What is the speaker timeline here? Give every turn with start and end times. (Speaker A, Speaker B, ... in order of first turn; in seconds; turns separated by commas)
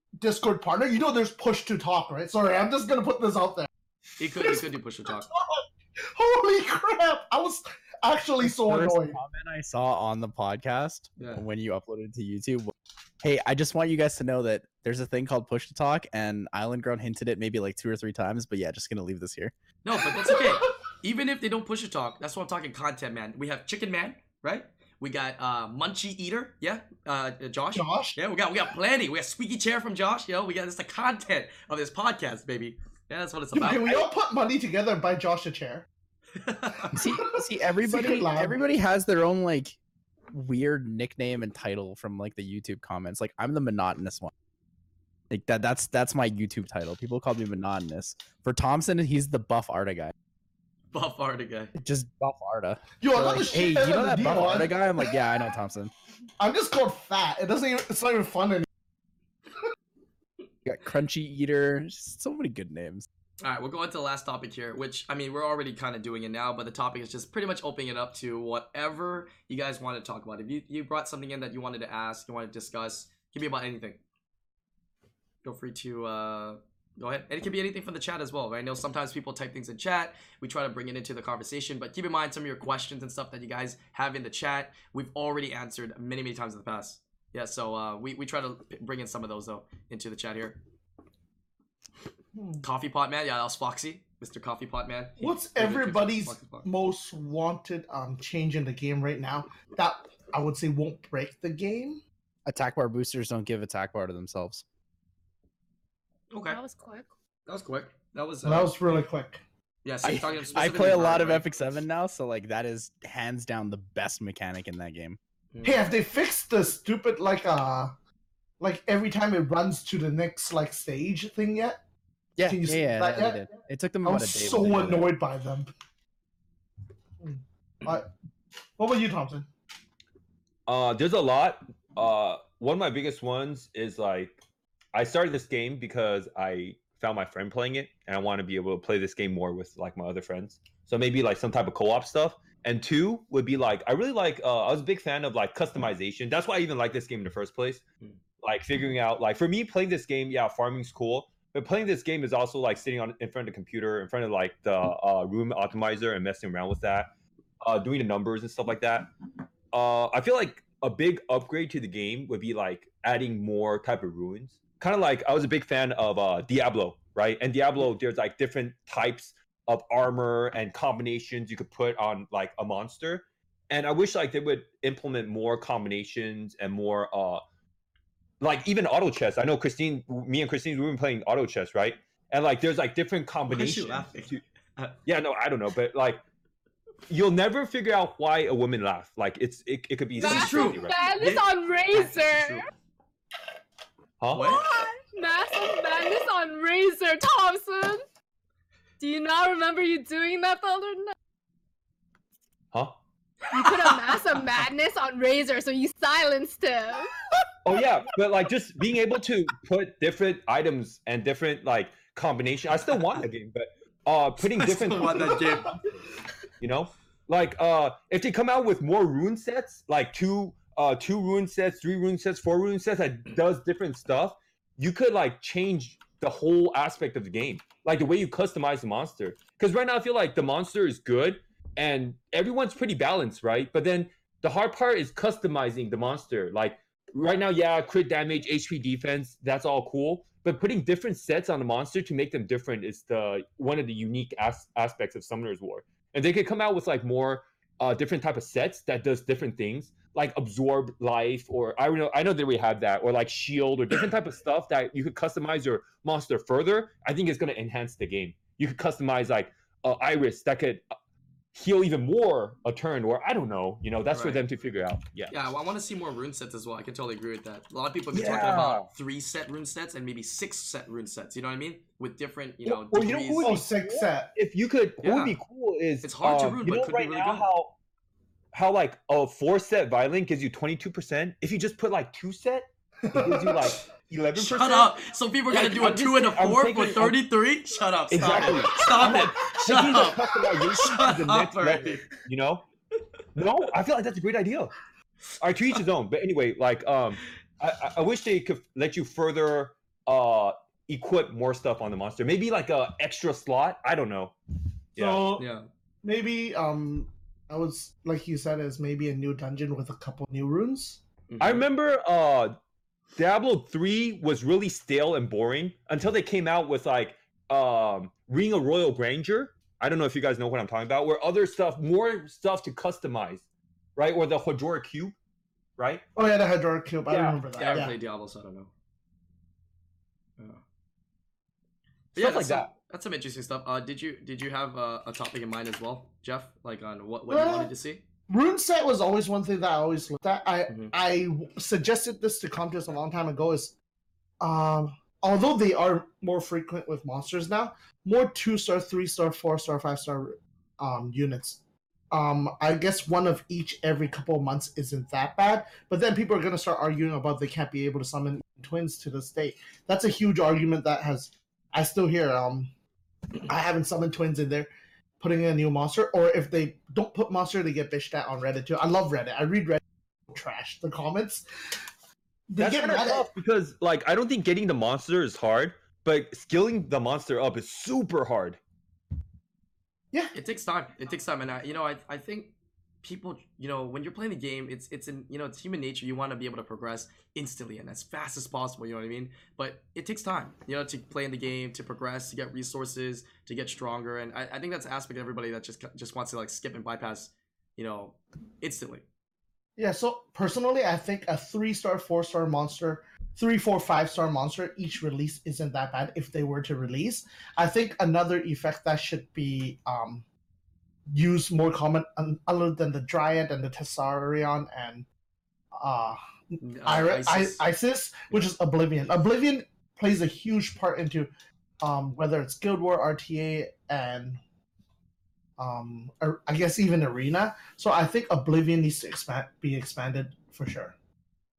Speaker A: 0.2-3.7, Speaker B: 4.2-5.3, Speaker A: 4.3-9.2, Speaker C: 8.4-19.5, Speaker B: 11.2-11.4, Speaker B: 19.8-34.1, Speaker A: 27.7-28.2, Speaker A: 33.5-35.9, Speaker B: 36.4-37.0, Speaker C: 36.9-39.8, Speaker A: 37.8-38.6, Speaker C: 40.3-44.3, Speaker C: 45.3-50.1, Speaker B: 50.9-51.7, Speaker C: 51.8-55.9, Speaker A: 53.0-55.1, Speaker A: 56.4-58.7, Speaker C: 60.6-63.1, Speaker B: 63.4-74.0, Speaker B: 75.4-90.6, Speaker A: 92.3-92.6, Speaker B: 92.6-96.7, Speaker A: 95.2-102.0, Speaker C: 102.5-104.6, Speaker B: 106.3-106.6, Speaker D: 106.5-107.1, Speaker B: 107.5-108.7, Speaker A: 108.4-109.4, Speaker B: 109.8-111.5, Speaker C: 110.0-115.2, Speaker B: 115.5-115.9, Speaker A: 115.6-117.9, Speaker A: 118.6-121.8, Speaker C: 122.4-125.1, Speaker A: 122.5-123.5, Speaker A: 124.0-125.7, Speaker A: 127.2-128.1, Speaker A: 128.8-129.5, Speaker E: 130.7-134.4, Speaker E: 134.9-147.8, Speaker E: 148.4-159.1, Speaker E: 159.7-177.4, Speaker E: 178.4-184.4, Speaker B: 183.5-184.9, Speaker E: 185.0-186.2, Speaker E: 187.1-191.0, Speaker B: 190.2-192.7, Speaker D: 190.2-192.7, Speaker E: 194.2-194.6, Speaker B: 194.3-194.7, Speaker D: 194.5-198.0, Speaker D: 199.0-201.1, Speaker D: 203.5-207.1, Speaker E: 207.6-215.4, Speaker B: 214.4-215.8, Speaker E: 216.6-260.9, Speaker E: 261.5-265.3, Speaker B: 264.1-264.4, Speaker B: 265.3-273.5, Speaker E: 268.1-268.9, Speaker E: 272.6-277.7, Speaker A: 273.4-274.3, Speaker B: 275.0-275.4, Speaker B: 276.0-277.5, Speaker E: 278.5-284.9, Speaker A: 283.1-283.7, Speaker B: 284.3-292.1, Speaker E: 285.5-287.2, Speaker E: 288.1-292.6, Speaker E: 293.3-294.7, Speaker E: 295.4-304.3, Speaker E: 304.9-305.2, Speaker A: 305.0-305.5, Speaker B: 305.4-305.7, Speaker A: 306.0-311.0, Speaker B: 311.3-311.7, Speaker E: 311.4-312.6, Speaker E: 313.1-323.4, Speaker E: 323.9-325.1, Speaker E: 325.8-326.0, Speaker A: 326.1-327.9, Speaker E: 327.1-327.8, Speaker B: 327.6-328.7, Speaker E: 332.1-332.7, Speaker B: 332.1-338.0, Speaker A: 337.3-337.7, Speaker A: 338.3-343.7, Speaker B: 340.7-340.9, Speaker A: 344.4-351.6, Speaker A: 352.1-362.7, Speaker A: 363.4-364.7, Speaker A: 365.2-371.4, Speaker A: 372.5-373.2, Speaker E: 372.6-378.6, Speaker B: 380.3-382.5, Speaker B: 383.0-399.0, Speaker A: 399.8-410.2, Speaker A: 411.1-415.1, Speaker A: 415.8-424.4, Speaker B: 416.6-417.6, Speaker A: 425.6-430.9